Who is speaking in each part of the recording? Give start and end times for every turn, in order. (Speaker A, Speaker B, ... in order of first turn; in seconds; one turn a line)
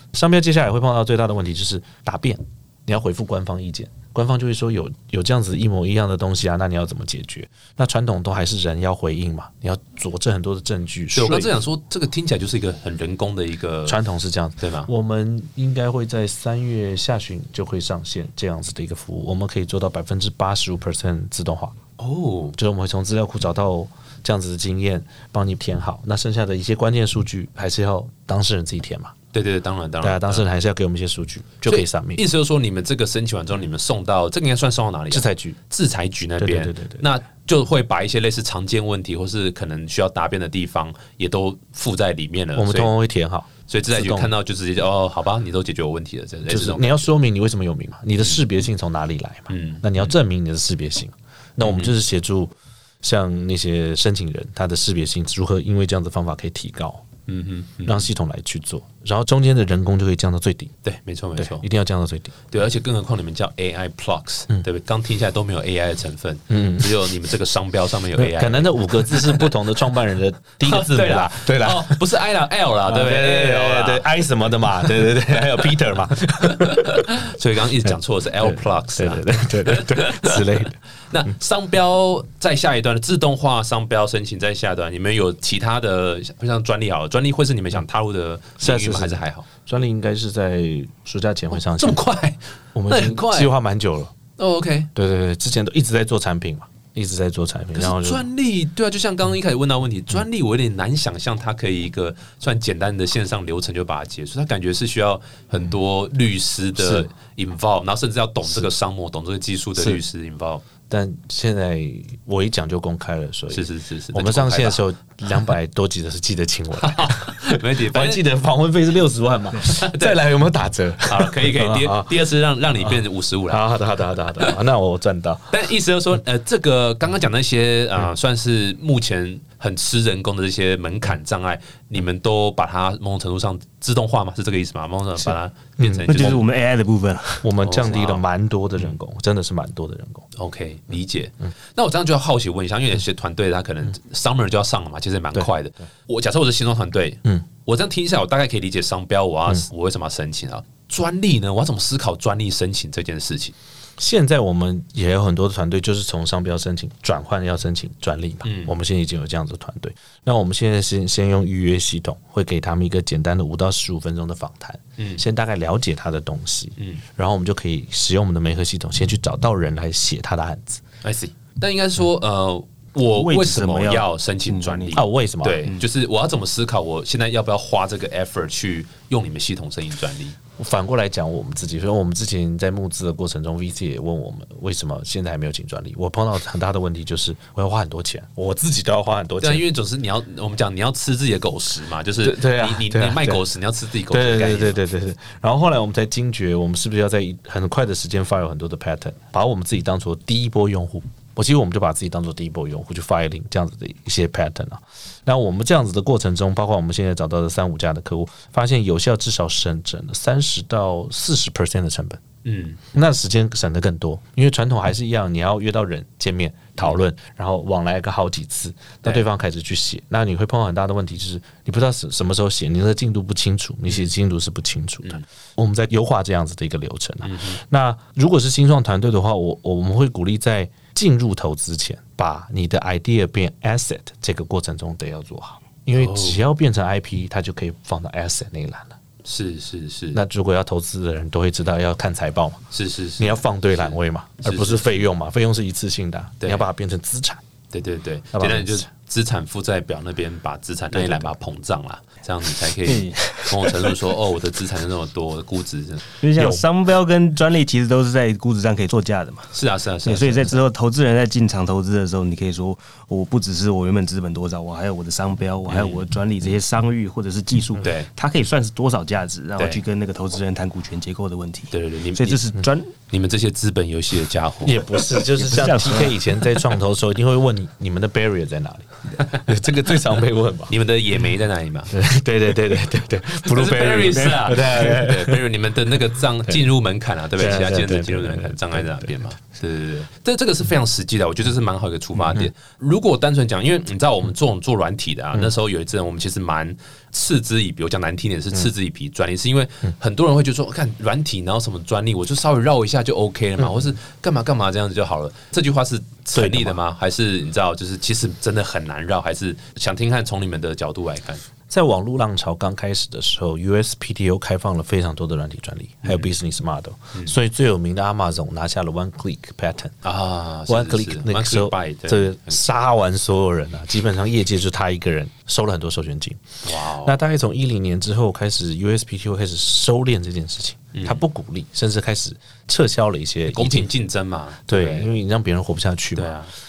Speaker A: 0.1-11.5
Speaker B: 11.1-14.0
Speaker A: 13.8-21.8
Speaker B: 14.6-14.9
Speaker B: 22.0-22.6
Speaker A: 22.6-29.1
Speaker B: 29.3-30.4
Speaker A: 30.0-32.2
Speaker B: 31.6-42.9
Speaker A: 35.1-35.6
Speaker A: 36.4-37.0
Speaker A: 42.5-44.3
Speaker B: 43.7-47.1
Speaker A: 46.5-57.0
Speaker B: 49.5-50.1
Speaker B: 51.6-51.9
Speaker B: 57.3-58.1
Speaker A: 57.8-60.7
Speaker B: 60.8-61.6
Speaker A: 61.4-62.3
Speaker B: 62.5-69.5
Speaker A: 66.5-66.9
Speaker A: 68.2-72.0
Speaker B: 70.6-74.0
Speaker A: 72.9-77.1
Speaker B: 76.4-89.5
Speaker A: 77.8-80.8
Speaker A: 88.6-92.0
Speaker B: 91.5-93.5
Speaker A: 92.7-94.1
Speaker B: 94.4-94.9
Speaker A: 94.9-98.3
Speaker B: 97.7-110.6
Speaker A: 106.8-107.1
Speaker A: 110.9-122.1
Speaker B: 113.5-114.8
Speaker B: 116.8-118.2
Speaker B: 119.6-120.2
Speaker B: 121.0-123.6
Speaker A: 122.8-125.5
Speaker B: 125.5-136.4
Speaker A: 135.2-136.4
Speaker C: 136.1-137.5
Speaker A: 137.4-140.2
Speaker B: 137.6-138.2
Speaker B: 140.3-153.5
Speaker A: 154.0-170.8
Speaker B: 158.4-158.7
Speaker B: 171.0-180.3
Speaker C: 173.1-175.0
Speaker A: 174.9-175.7
Speaker A: 180.6-189.6
Speaker B: 189.4-194.8
Speaker A: 192.2-193.4
Speaker A: 194.1-212.2
Speaker B: 212.4-212.8
Speaker A: 212.9-238.9
Speaker B: 227.2-227.6
Speaker B: 235.9-236.4
Speaker B: 239.2-240.2
Speaker A: 240.1-242.6
Speaker B: 242.7-244.9
Speaker A: 243.2-247.4
Speaker B: 246.4-246.7
Speaker B: 247.7-256.0
Speaker A: 248.3-248.9
Speaker A: 250.9-251.3
Speaker C: 252.8-253.9
Speaker C: 256.2-259.5
Speaker A: 256.4-256.6
Speaker B: 259.5-260.5
Speaker C: 260.0-272.9
Speaker B: 265.7-266.0
Speaker B: 267.8-268.1
Speaker B: 271.7-272.5
Speaker B: 273.1-274.9
Speaker A: 274.6-280.7
Speaker C: 275.3-276.2
Speaker B: 280.7-281.9
Speaker A: 281.9-285.4
Speaker B: 283.4-311.4
Speaker A: 287.3-289.1
Speaker A: 292.2-292.5
Speaker A: 303.6-303.8
Speaker A: 306.3-306.8
Speaker A: 311.7-319.9
Speaker B: 316.0-316.3
Speaker B: 320.0-322.6
Speaker A: 320.7-326.4
Speaker B: 326.6-327.2
Speaker A: 327.0-333.9
Speaker B: 330.9-331.2
Speaker B: 333.5-335.1
Speaker A: 334.7-336.3
Speaker B: 336.1-336.5